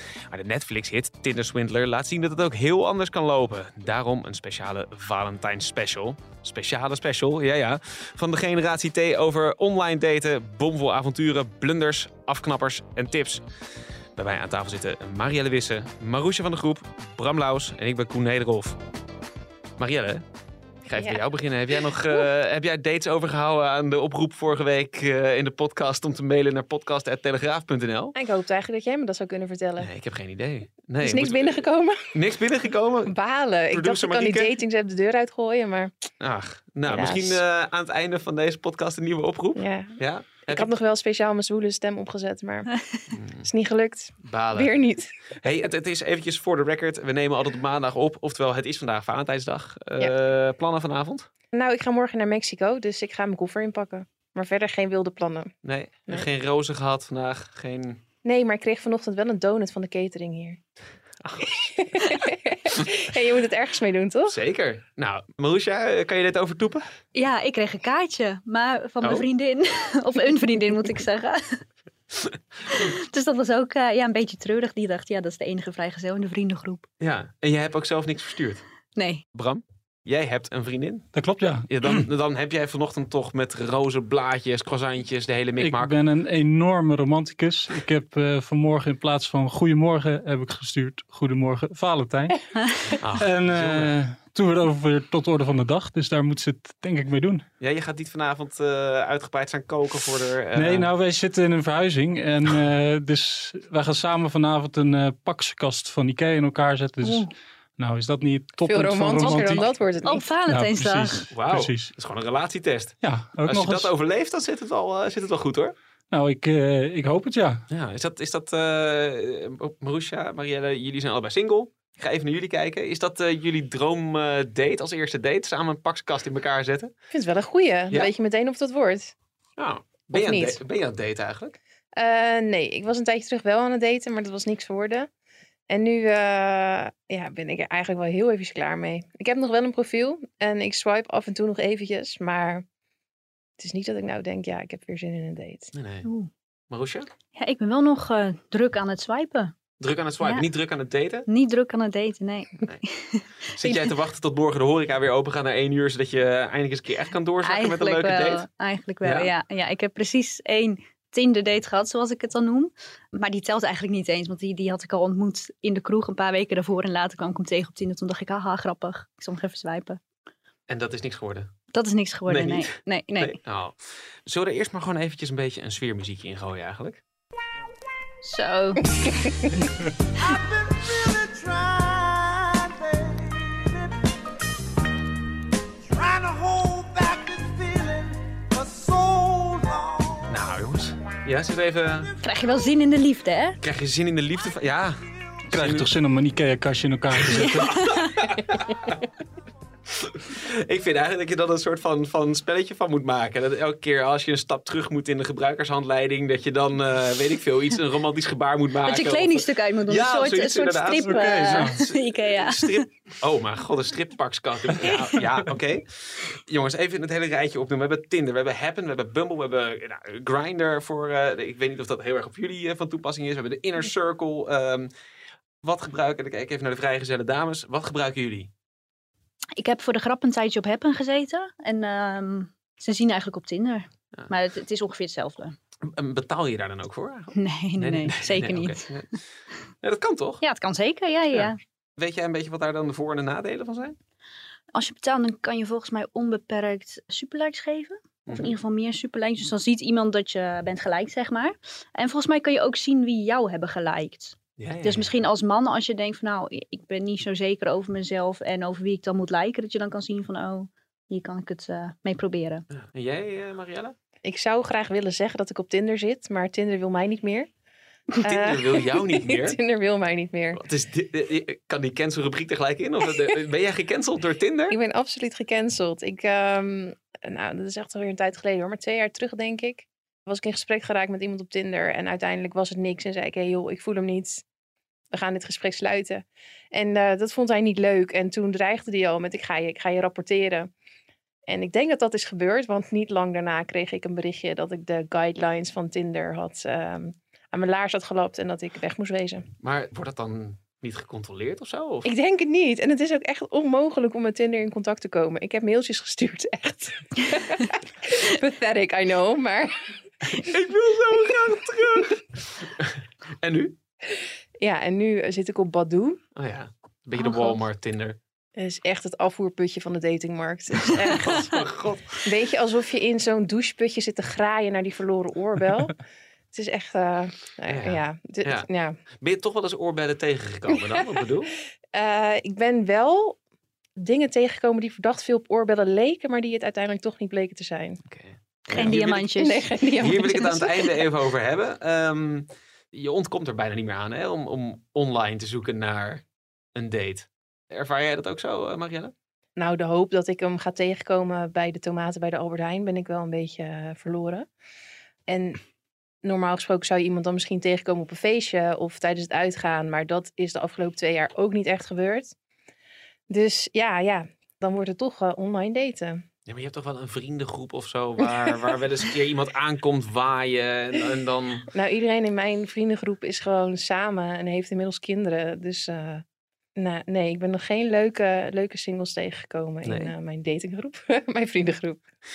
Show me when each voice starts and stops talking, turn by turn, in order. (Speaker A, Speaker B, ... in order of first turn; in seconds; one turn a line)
Speaker A: 0.3-13.4
Speaker A: 14.2-18.8
Speaker A: 19.8-20.2
Speaker A: 20.8-28.1
Speaker B: 20.9-21.2
Speaker B: 28.1-29.9
Speaker A: 29.8-33.1
Speaker B: 31.0-32.1
Speaker B: 33.0-35.9
Speaker A: 33.7-34.5
Speaker A: 36.2-40.7
Speaker B: 36.9-37.4
Speaker B: 39.5-42.7
Speaker A: 43.1-43.5
Speaker B: 43.4-45.3
Speaker A: 44.2-44.7
Speaker A: 45.4-51.3
Speaker B: 51.5-55.5
Speaker A: 55.6-58.0
Speaker B: 58.2-60.6
Speaker A: 61.2-61.5
Speaker B: 61.4-64.4
Speaker A: 64.3-66.8
Speaker C: 67.1-71.6
Speaker C: 72.7-76.9
Speaker A: 77.0-78.6
Speaker C: 78.9-79.2
Speaker A: 79.3-81.1
Speaker D: 81.1-82.0
Speaker A: 81.6-86.0
Speaker D: 85.6-92.5
Speaker C: 92.6-92.9
Speaker A: 93.0-93.9
Speaker D: 93.0-97.4
Speaker A: 97.6-100.9
Speaker D: 100.5-109.6
Speaker C: 107.0-107.3
Speaker B: 108.7-110.2
Speaker C: 109.2-111.2
Speaker D: 110.5-111.9
Speaker A: 111.3-115.7
Speaker D: 113.0-113.9
Speaker D: 116.1-117.6
Speaker A: 117.7-126.9
Speaker B: 127.1-129.1
Speaker A: 129.6-131.6
Speaker B: 130.1-130.6
Speaker B: 131.9-135.1
Speaker B: 135.7-142.6
Speaker B: 143.6-145.7
Speaker A: 145.7-146.1
Speaker C: 146.0-146.3
Speaker A: 146.7-147.1
Speaker C: 147.3-149.5
Speaker A: 149.8-151.3
Speaker C: 150.2-150.5
Speaker C: 151.3-153.9
Speaker A: 153.5-158.4
Speaker C: 157.4-170.0
Speaker A: 159.0-159.3
Speaker A: 170.7-171.5
Speaker C: 171.7-173.4
Speaker A: 172.3-177.0
Speaker C: 178.2-179.0
Speaker B: 179.2-179.6
Speaker A: 180.8-183.4
Speaker E: 186.0-190.1
Speaker A: 190.3-192.1
Speaker C: 192.2-193.6
Speaker A: 193.6-195.9
Speaker D: 195.5-197.9
Speaker A: 197.1-199.0
Speaker C: 197.3-198.1
Speaker A: 199.9-224.9
Speaker C: 208.8-212.9
Speaker D: 211.0-211.8
Speaker A: 225.6-228.5
Speaker C: 229.6-235.6
Speaker A: 235.8-239.1
Speaker C: 237.3-238.8
Speaker A: 239.8-240.4
Speaker C: 240.4-241.6
Speaker A: 241.3-243.9
Speaker C: 244.7-262.6
Speaker A: 248.2-248.5
Speaker A: 254.6-255.1
Speaker A: 262.7-263.9
Speaker B: 264.2-267.5
Speaker B: 268.2-270.6
Speaker A: 268.2-269.6
Speaker A: 270.5-274.8
Speaker B: 274.7-284.4
Speaker B: 285.1-290.7
Speaker B: 291.5-299.5
Speaker A: 299.6-302.1
Speaker B: 302.0-309.8
Speaker A: 310.3-313.8
Speaker B: 314.6-316.2
Speaker A: 316.4-318.2
Speaker C: 317.2-317.6
Speaker B: 318.6-321.5
Speaker A: 320.9-322.2
Speaker B: 322.2-326.0
Speaker B: 326.5-329.0
Speaker A: 327.7-331.5
Speaker B: 330.7-331.1
Speaker B: 331.9-333.4
Speaker B: 334.0-338.0
Speaker A: 338.1-339.3
Speaker C: 338.7-340.2
Speaker B: 339.3-341.0
Speaker A: 340.0-346.2
Speaker A: 346.7-349.1
Speaker B: 349.6-354.5
Speaker B: 355.3-355.6
Speaker B: 356.2-362.3
Speaker B: 363.3-366.2
Speaker A: 366.4-371.7
Speaker B: 371.7-376.2
Speaker B: 376.8-382.0
Speaker A: 379.8-380.1